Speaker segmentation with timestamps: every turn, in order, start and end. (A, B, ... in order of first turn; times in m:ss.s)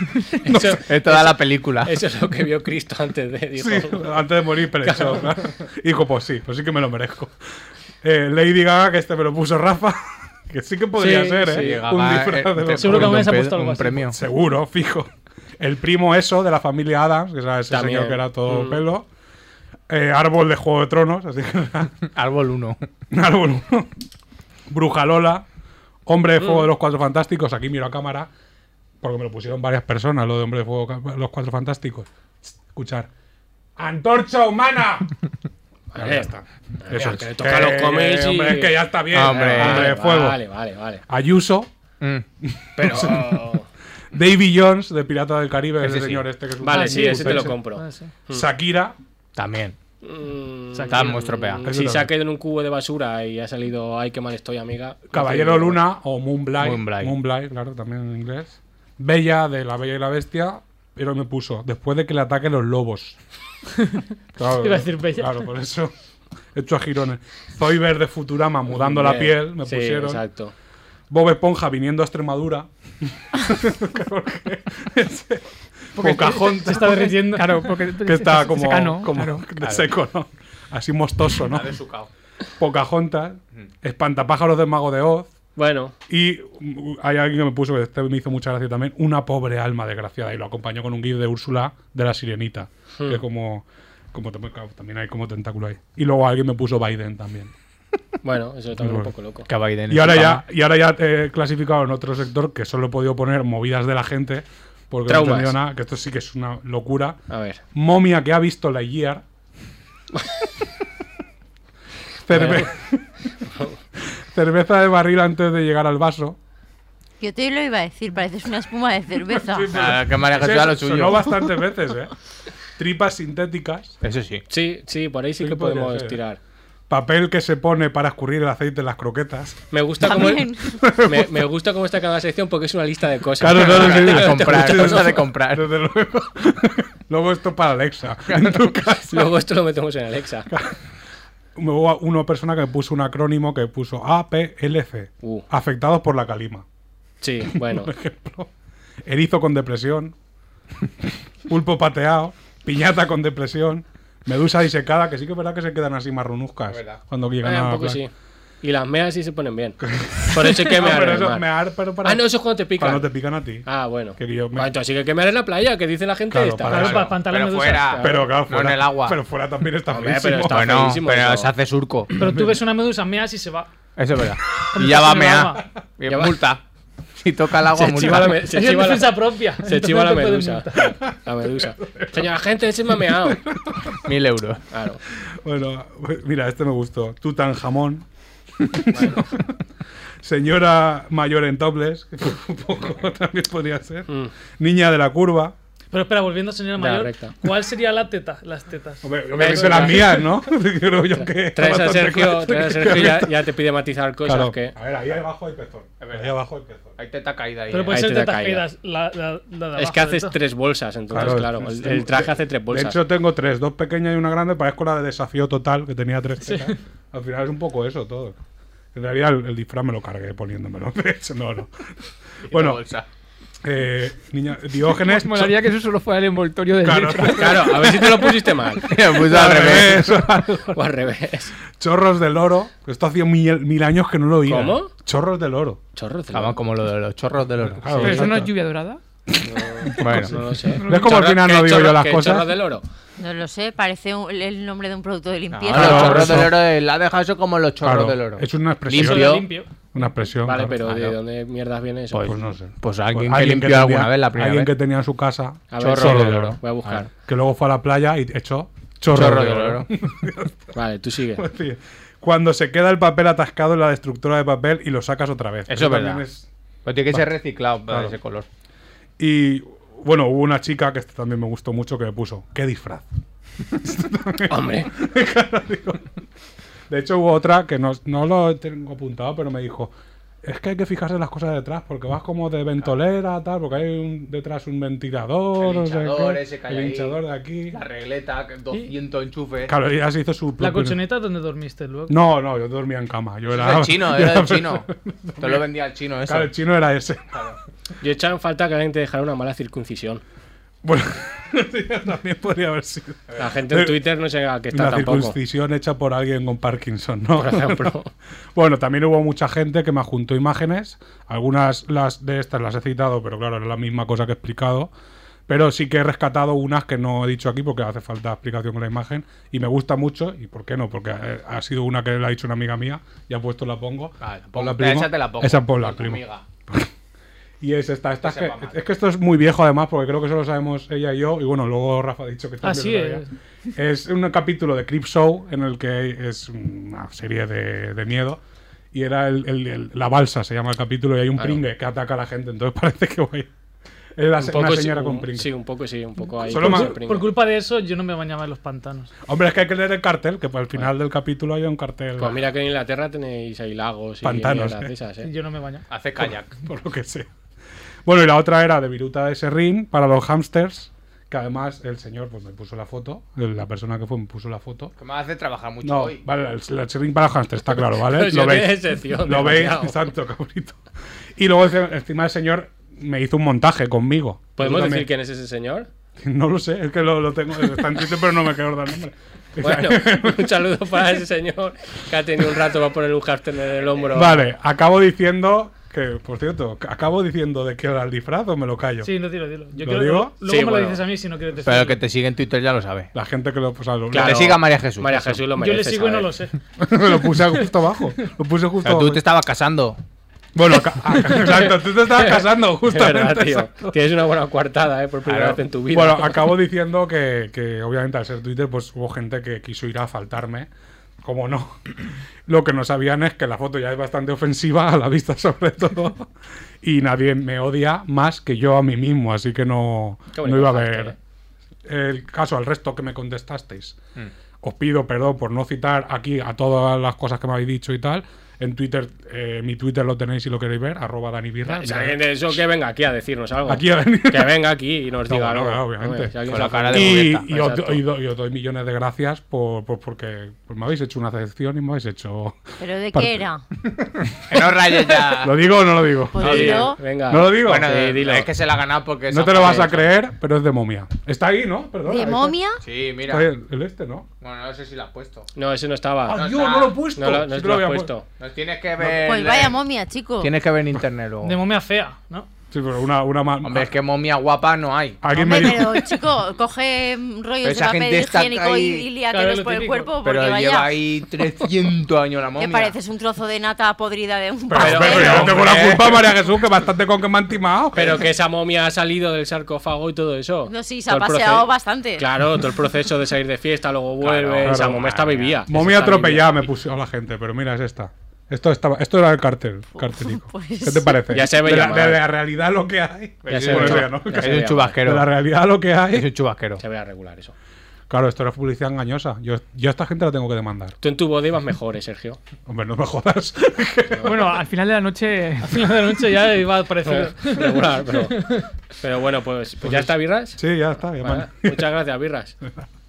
0:00.4-0:04.2 A
0:00.4-0:00.8 B
0:00.8-0:01.9 C
0:03.6-0:07.3 B
0:04.8-0:05.3 A
0:08.0-0:13.4 B
0:11.0-0:11.8 A
0:11.5-0:14.2 C
0:12.8-0:14.1 D
0:14.1-0:19.1 B
0:17.7-0:18.8 A
0:19.9-0:22.1 B
0:22.1-0:22.8 C
0:23.1-0:23.9 B
0:24.7-0:25.4 B
0:26.0-0:28.3 B
0:26.4-0:26.7 A
0:29.0-0:33.1 B
0:33.8-0:35.1 B
0:35.9-0:36.3 A
0:36.0-0:40.4 B
0:36.8-0:41.0 A
0:39.1-0:39.9 C
0:41.1-0:41.7 B
0:42.4-0:43.6 B
0:42.8-0:43.6 A
0:44.1-0:47.6 B
0:45.8-0:46.2 C
0:46.6-0:48.5 A
0:46.7-0:48.1 D
0:48.3-0:49.0 B
0:49.4-0:49.8 C
0:50.0-0:55.8 A
0:50.7-0:51.2 D
0:50.9-0:51.6 C
0:51.6-0:52.1 B
0:55.1-1:03.2 B
0:56.6-0:57.1 C
1:03.8-1:05.4 D
1:04.4-1:05.9 B
1:06.5-1:10.2 B
1:08.7-1:10.5 A
1:11.1-1:17.2 B
1:16.0-1:17.7 D
1:16.5-1:19.5 E
1:18.0-1:21.7 B
1:19.6-1:19.8 C
1:21.4-1:22.1 C
1:22.6-1:25.3 B
1:25.6-1:25.9 A
1:26.1-1:37.5 B
1:38.2-1:39.5 A
1:38.8-1:39.1 B
1:39.5-1:40.4 C
1:39.9-1:47.2 B
1:45.1-1:45.6 A
1:47.3-1:47.6 A
1:47.7-1:49.2 B
1:52.2-1:53.1 B
1:52.3-1:52.6 C
1:52.4-1:52.6 A
1:54.0-1:56.4 B
1:57.2-1:59.8 F
1:59.3-2:02.1 B
1:59.7-2:01.4 C
2:02.8-2:04.0 B
2:04.0-2:04.4 C
2:04.5-2:06.4 A
2:05.4-2:06.2 B
2:06.9-2:09.6 B
2:09.7-2:15.2 A
2:10.1-2:10.8 F
2:10.7-2:11.3 B
2:13.4-2:19.3 B
2:13.6-2:15.7 C
2:18.3-2:18.6 C
2:19.1-2:20.5 A
2:20.5-2:20.8 B
2:21.6-2:26.6 B
2:27.2-2:27.9 A
2:27.5-2:28.5 B
2:29.0-2:30.1 B
2:31.0-2:38.0 B
2:36.7-2:37.0 C
2:37.4-2:38.1 A
2:38.6-2:41.5 A
2:39.8-2:42.2 B
2:42.0-2:43.1 A
2:42.8-2:44.7 B
2:43.6-2:47.0 A
2:46.3-2:47.1 B
2:46.7-2:48.0 D
2:46.8-2:49.2 C
2:47.7-2:48.2 A
2:48.0-2:50.8 B
2:49.9-2:51.5 A
2:50.5-2:52.3 C
2:52.1-2:53.7 D
2:54.0-2:56.6 C
2:54.7-2:55.6 D
2:56.1-2:56.4 A
2:57.2-2:58.5 C
2:57.7-3:03.4 A
2:58.4-3:01.0 D
3:01.6-3:02.3 B
3:03.1-3:04.0 B
3:04.0-3:04.6 C
3:04.7-3:05.0 A
3:05.1-3:08.0 B
3:08.6-3:09.5 B
3:08.9-3:09.2 A
3:10.2-3:15.5 B
3:15.9-3:20.2 D
3:16.8-3:17.4 A
3:19.0-3:23.4 B
3:19.4-3:20.3 A
3:21.1-3:24.7 A
3:24.2-3:27.0 B
3:26.0-3:26.4 C
3:27.0-3:28.0 C
3:27.7-3:30.4 D
3:27.9-3:28.6 A
3:29.8-3:33.0 A
3:31.1-3:38.4 B
3:36.4-3:36.8 D
3:38.9-3:41.9 B
3:42.4-3:43.1 C
3:42.5-3:42.8 B
3:43.6-3:45.6 B
3:45.0-3:47.9 E
3:46.8-3:50.8 B
3:47.4-3:49.8 A
3:48.8-3:50.2 C
3:50.7-3:51.5 A
3:51.8-3:55.8 B
3:54.4-3:54.9 A
3:55.9-3:56.6 A
3:56.3-3:58.5 C
3:57.8-3:58.5 B
3:57.9-3:59.0 E
3:59.3-4:00.3 B
3:59.5-4:02.8 A
4:00.0-4:00.4 C
4:00.8-4:01.2 E
4:00.8-4:02.5 B
4:03.2-4:06.4 F
4:05.5-4:09.5 C
4:05.7-4:06.6 B
4:07.8-4:10.8 B
4:08.9-4:09.7 D
4:10.4-4:12.3 A
4:10.8-4:11.1 C
4:12.1-4:14.7 C
4:12.2-4:16.6 B
4:15.7-4:17.1 A
4:15.8-4:17.0 C
4:17.2-4:20.8 B
4:19.1-4:19.9 C
4:20.7-4:21.4 A
4:21.4-4:26.5 B
4:25.7-4:26.2 C
4:26.8-4:28.5 C
4:27.9-4:28.2 B
4:29.2-4:33.1 B
4:33.7-4:36.1 B
4:34.5-4:34.9 A
4:36.9-4:47.8 B
4:45.6-4:47.2 C
4:47.7-4:49.7 C
4:49.6-4:51.0 B
4:50.6-4:52.1 D
4:52.1-4:55.7 B
4:53.5-4:54.9 C
4:55.4-4:56.5 C
4:56.2-4:57.4 B
4:58.0-5:00.2 A
5:00.8-5:03.9 B
5:03.4-5:05.4 A
5:04.7-5:07.9 B
5:07.4-5:08.1 A
5:08.5-5:14.9 B
5:15.5-5:26.9 B
5:24.2-5:26.4 C
5:27.6-5:33.2 B
5:28.2-5:28.8 C
5:32.6-5:33.3 D
5:33.8-5:38.4 B
5:38.9-5:43.5 B
5:44.2-5:45.5 B
5:44.4-5:47.3 A
5:46.4-5:49.1 D
5:46.5-5:47.0 B
5:49.2-5:52.4 B
5:52.2-5:55.3 A
5:54.2-5:54.9 B
5:55.2-5:55.8 D
5:55.9-5:56.5 C
5:56.2-5:57.3 B
5:58.0-6:04.9 B
6:05.0-6:06.2 C
6:05.8-6:10.8 B
6:08.0-6:10.0 A
6:11.4-6:15.1 B
6:14.6-6:15.9 A
6:16.2-6:20.6 B
6:19.6-6:24.4 A
6:24.1-6:29.1 B
6:29.0-6:32.0 D
6:29.8-6:30.3 B
6:30.4-6:31.0 A
6:31.6-6:33.1 C
6:33.1-6:34.5 B
6:34.1-6:36.3 A
6:34.2-6:35.4 C
6:35.5-6:36.6 D
6:36.8-6:39.2 B
6:38.8-6:40.0 C
6:40.5-6:44.0 B
6:41.3-6:46.6 A
6:45.2-6:45.6 C
6:45.9-6:50.7 B
6:51.2-6:56.3 B
6:56.8-7:01.1 B
7:00.3-7:01.2 A
7:01.8-7:04.0 B
7:04.6-7:12.2 B
7:11.6-7:18.0 A
7:13.7-7:14.6 B
7:15.2-7:16.3 B
7:16.5-7:17.5 C
7:16.8-7:23.5 B
7:22.8-7:23.6 F
7:24.5-7:25.6 C
7:24.5-7:28.0 B
7:26.3-7:27.0 F
7:26.4-7:28.5 A
7:26.4-7:26.9 C
7:27.5-7:30.1 C
7:29.3-7:32.6 B
7:29.6-7:29.9 A
7:32.0-7:32.8 F
7:32.8-7:33.5 C
7:33.2-7:34.3 B
7:34.4-7:35.5 C
7:35.5-7:36.4 A
7:36.2-7:38.1 B
7:36.3-7:37.0 C
7:37.1-7:38.2 A
7:38.4-7:39.8 C
7:39.0-7:39.3 B
7:39.2-7:40.5 F
7:40.4-7:41.6 C
7:41.4-7:42.5 D
7:42.7-7:43.9 B
7:43.6-7:45.2 C
7:45.2-7:46.2 B
7:45.3-7:51.0 F
7:47.6-7:49.1 C
7:49.3-7:50.1 D
7:50.2-7:52.9 C
7:52.6-7:55.6 F
7:54.7-7:58.2 B
7:54.7-7:55.7 A
7:55.0-7:56.2 C
7:57.9-8:06.7 A
8:00.6-8:02.3 F
8:04.2-8:05.6 C
8:04.6-8:16.3 B
8:09.9-8:11.3 F
8:11.3-8:12.2 A
8:13.4-8:15.3 C
8:13.5-8:15.0 A
8:16.1-8:16.8 C
8:16.8-8:17.5 A
8:18.1-8:21.0 B
8:21.0-8:22.4 A
8:22.6-8:24.4 B
8:24.2-8:25.8 E
8:25.6-8:28.7 D
8:27.0-8:28.4 A
8:29.0-8:30.6 A
8:29.8-8:31.9 B
8:31.2-8:32.6 A